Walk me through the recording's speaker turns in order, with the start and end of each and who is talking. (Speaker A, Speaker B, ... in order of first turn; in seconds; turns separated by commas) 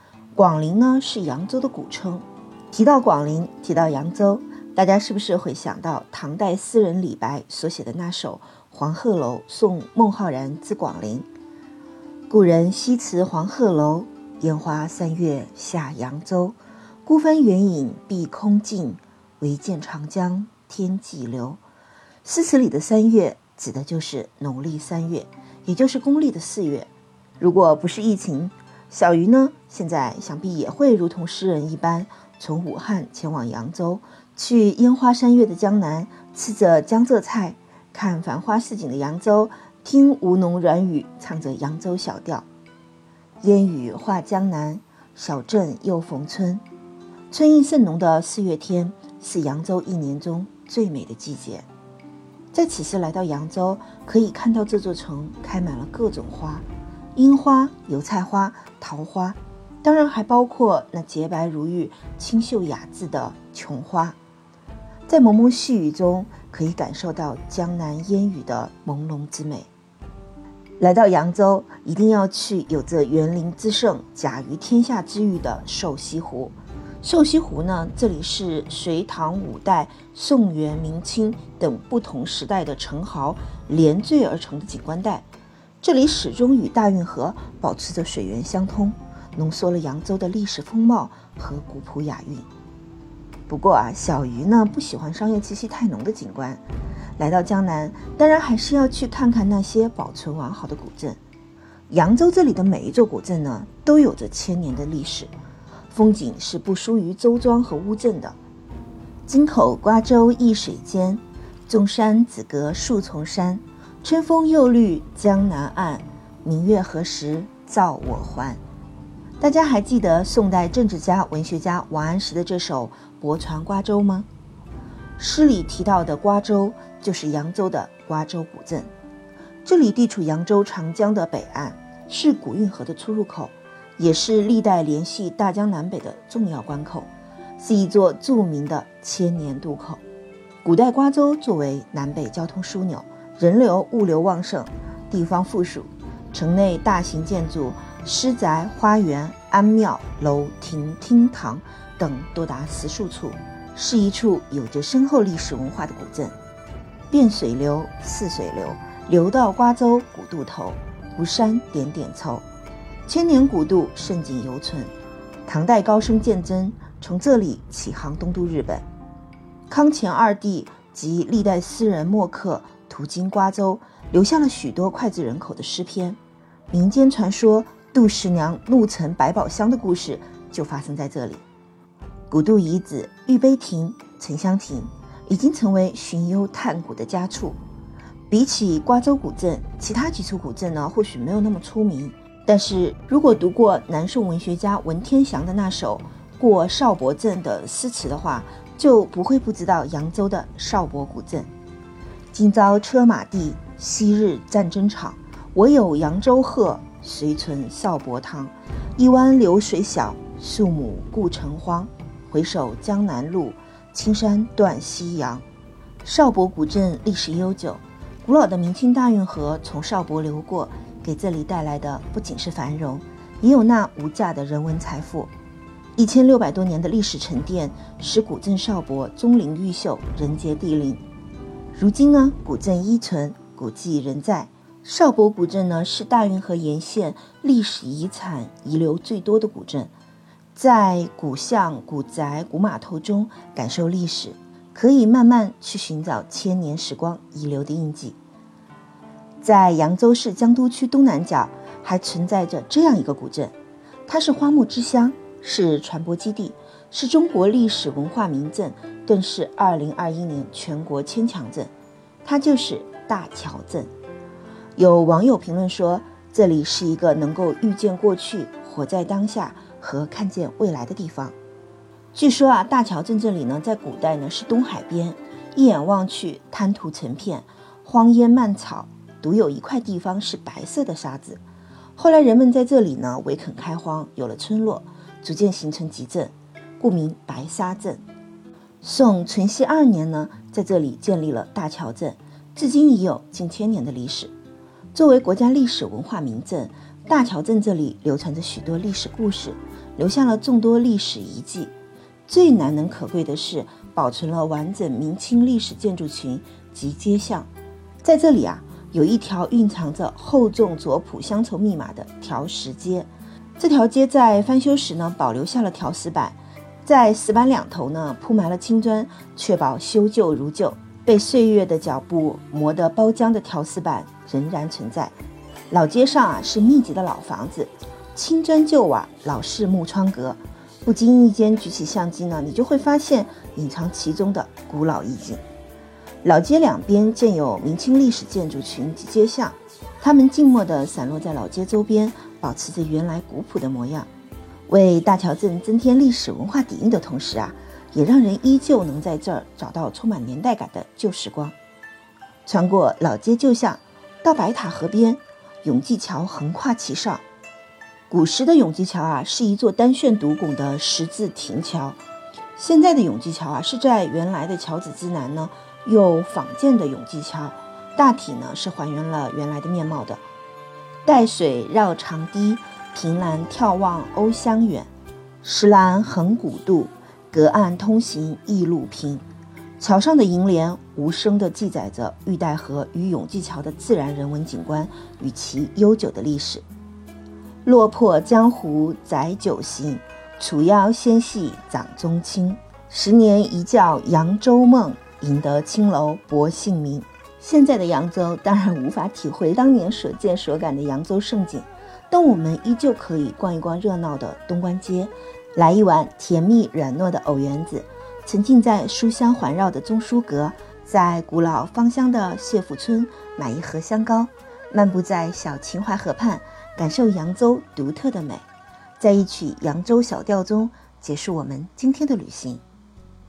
Speaker A: 0.3-11.3, Speaker A: 12.3-21.6, Speaker A: 22.2-26.9, Speaker A: 27.4-42.5, Speaker A: 43.4-46.6, Speaker A: 47.3-51.7, Speaker A: 52.5-64.2, Speaker A: 65.1-69.7, Speaker A: 70.8-85.3, Speaker A: 85.8-92.5, Speaker A: 93.5-96.6, Speaker A: 97.2-101.2, Speaker A: 101.9-105.3, Speaker A: 105.9-108.4, Speaker A: 109.3-118.6, Speaker A: 119.4-124.3, Speaker A: 125.2-128.9, Speaker A: 129.7-140.0, Speaker A: 140.6-156.3, Speaker A: 157.1-162.5, Speaker A: 163.1-164.9, Speaker A: 165.5-168.9, Speaker A: 169.7-176.2, Speaker A: 176.7-181.4, Speaker A: 182.3-187.6, Speaker A: 188.3-201.5, Speaker A: 202.3-215.4, Speaker A: 216.0-225.3, Speaker A: 226.0-231.0, Speaker A: 231.7-239.9, Speaker A: 240.5-248.2, Speaker A: 249.4-253.5, Speaker A: 254.1-261.7, Speaker A: 262.2-263.9, Speaker A: 264.8-271.4, Speaker A: 272.1-281.4, Speaker A: 282.0-288.0, Speaker A: 288.8-294.3, Speaker A: 294.9-301.7, Speaker A: 302.3-307.5, Speaker A: 308.0-325.1, Speaker A: 325.7-335.4, Speaker A: 336.2-344.1, Speaker A: 344.7-351.6, Speaker A: 352.5-357.2, Speaker A: 358.1-362.0, Speaker A: 362.6-370.2, Speaker A: 371.1-374.9, Speaker A: 375.4-379.2, Speaker A: 379.8-386.6, Speaker A: 387.6-418.5, Speaker A: 419.0-422.6